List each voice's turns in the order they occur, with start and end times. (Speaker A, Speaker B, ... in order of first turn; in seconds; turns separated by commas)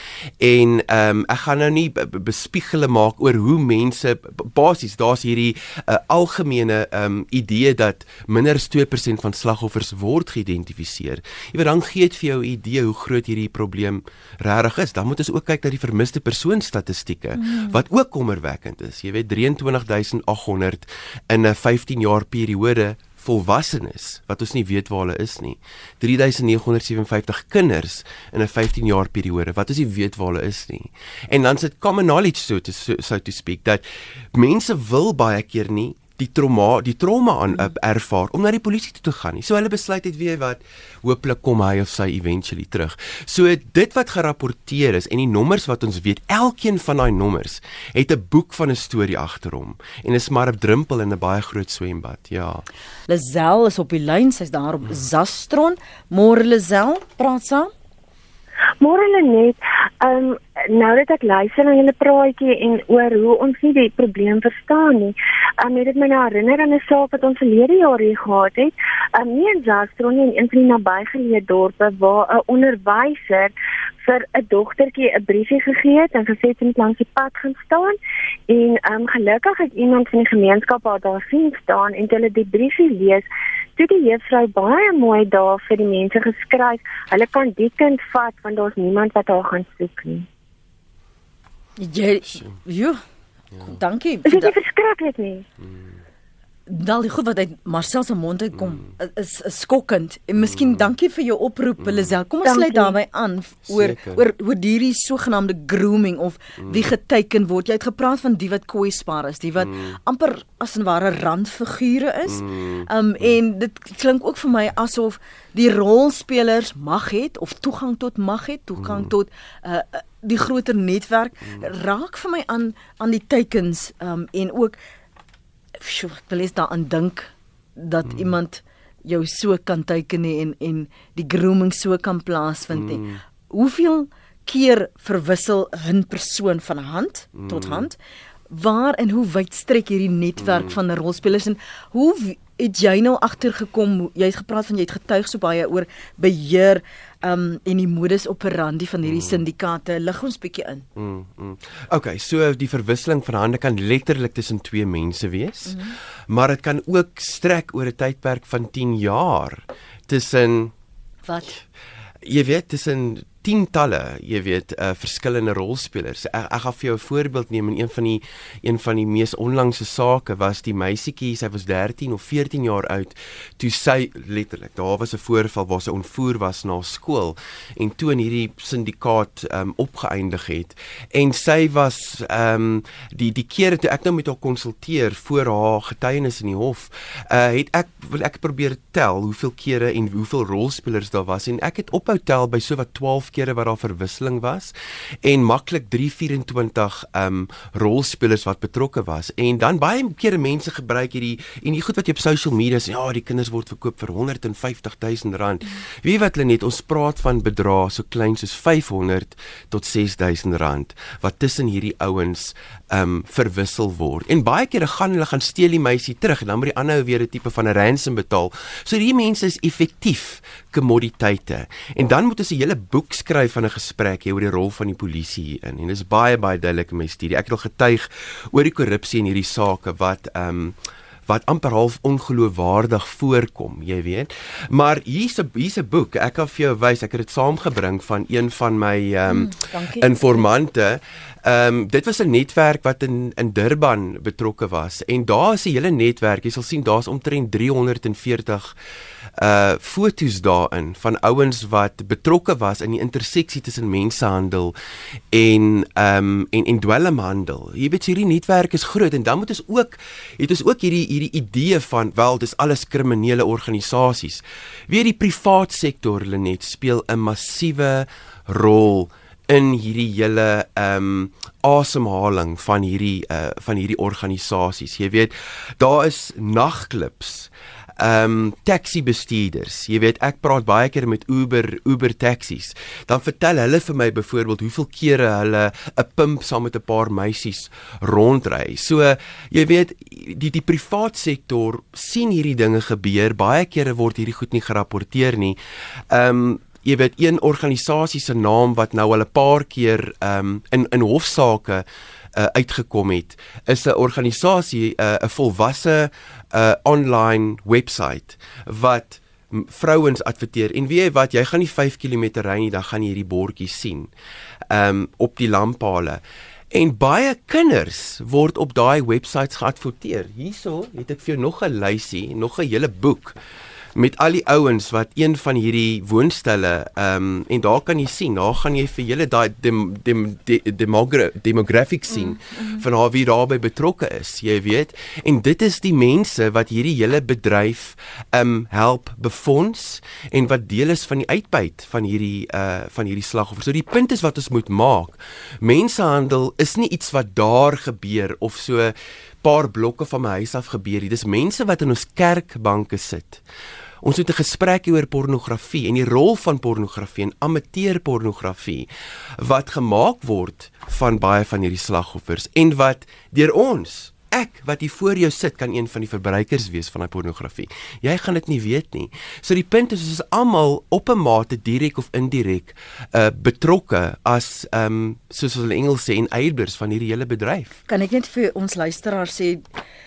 Speaker A: 0.4-52.7, Speaker B: 53.1-57.7, Speaker C: 58.8-73.5, Speaker C: 74.0-78.0, Speaker C: 78.5-83.2, Speaker C: 83.8-90.3, Speaker B: 91.8-93.0, Speaker B: 93.6-94.6, Speaker C: 94.3-95.5, Speaker A: 95.6-96.0, Speaker B: 96.7-124.8, Speaker A: 100.5-100.8, Speaker C: 102.4-102.9, Speaker A: 103.7-104.2, Speaker A: 109.6-110.0, Speaker A: 112.3-112.9, Speaker A: 118.8-119.1, Speaker B: 125.8-138.0, Speaker A: 132.7-133.2, Speaker A: 137.4-137.9, Speaker B: 138.5-150.9, Speaker A: 140.4-140.8, Speaker A: 149.1-149.4, Speaker A: 151.0-160.7, Speaker B: 155.7-155.9, Speaker B: 161.3-161.6, Speaker A: 162.2-248.8, Speaker B: 239.3-240.5, Speaker A: 249.4-254.8, Speaker A: 255.3-295.6, Speaker A: 296.1-314.1, Speaker A: 314.7-323.4, Speaker A: 323.9-353.4, Speaker B: 332.2-332.8, Speaker A: 354.0-377.8, Speaker B: 377.9-379.6